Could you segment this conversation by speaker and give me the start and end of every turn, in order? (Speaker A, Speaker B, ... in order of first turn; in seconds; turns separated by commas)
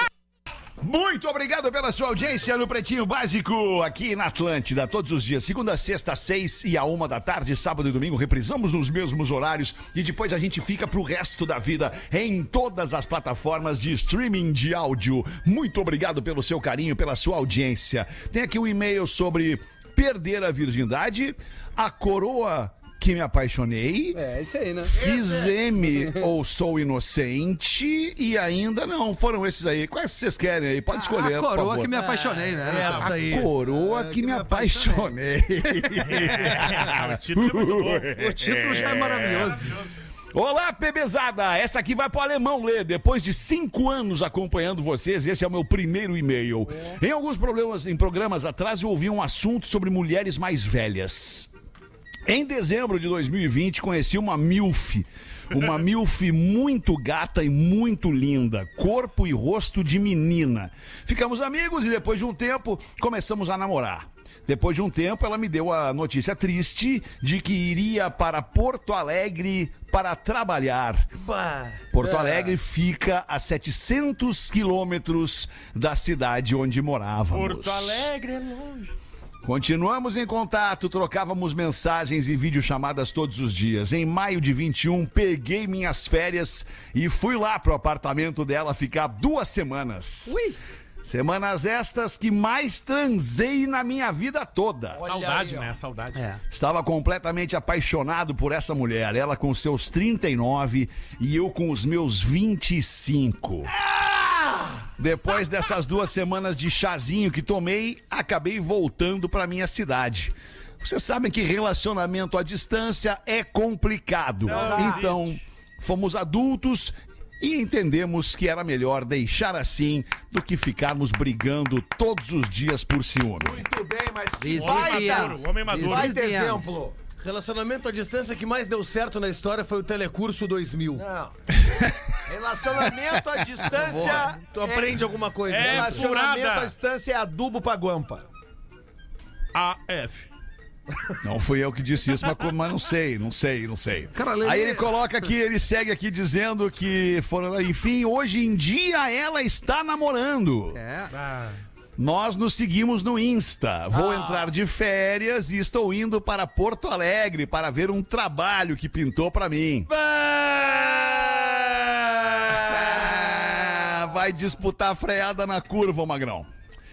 Speaker A: 0.8-24.2, Speaker B: 24.1-25.0, Speaker A: 24.9-31.9, Speaker C: 24.9-25.6, Speaker B: 25.8-26.2, Speaker B: 30.9-33.1, Speaker D: 31.9-35.0, Speaker E: 32.7-33.1, Speaker A: 33.0-39.7, Speaker E: 36.0-38.1, Speaker B: 38.1-39.8, Speaker A: 40.3-51.5, Speaker A: 52.2-71.1, Speaker D: 71.2-72.0, Speaker A: 71.9-78.1, Speaker B: 72.0-72.5, Speaker E: 77.3-78.9, Speaker A: 79.4-90.4, Speaker B: 90.2-90.6, Speaker A: 91.0-95.0, Speaker C: 94.9-95.7, Speaker E: 95.0-96.2, Speaker B: 96.1-96.4, Speaker A: 96.5-103.7, Speaker C: 103.9-104.8, Speaker A: 105.0-123.6, Speaker E: 114.4-115.4, Speaker C: 114.5-115.1, Speaker C: 123.4-127.0, Speaker B: 124.4-126.7, Speaker E: 124.5-126.1, Speaker D: 127.2-131.0, Speaker C: 131.0-131.4, Speaker C: 132.2-135.0, Speaker D: 133.8-136.0, Speaker B: 133.9-134.2, Speaker E: 135.5-136.7, Speaker C: 135.5-138.2, Speaker E: 139.5-140.3, Speaker A: 141.2-150.8, Speaker B: 144.1-145.2, Speaker B: 150.7-151.1, Speaker E: 151.2-151.5, Speaker A: 152.0-159.9, Speaker A: 162.1-166.5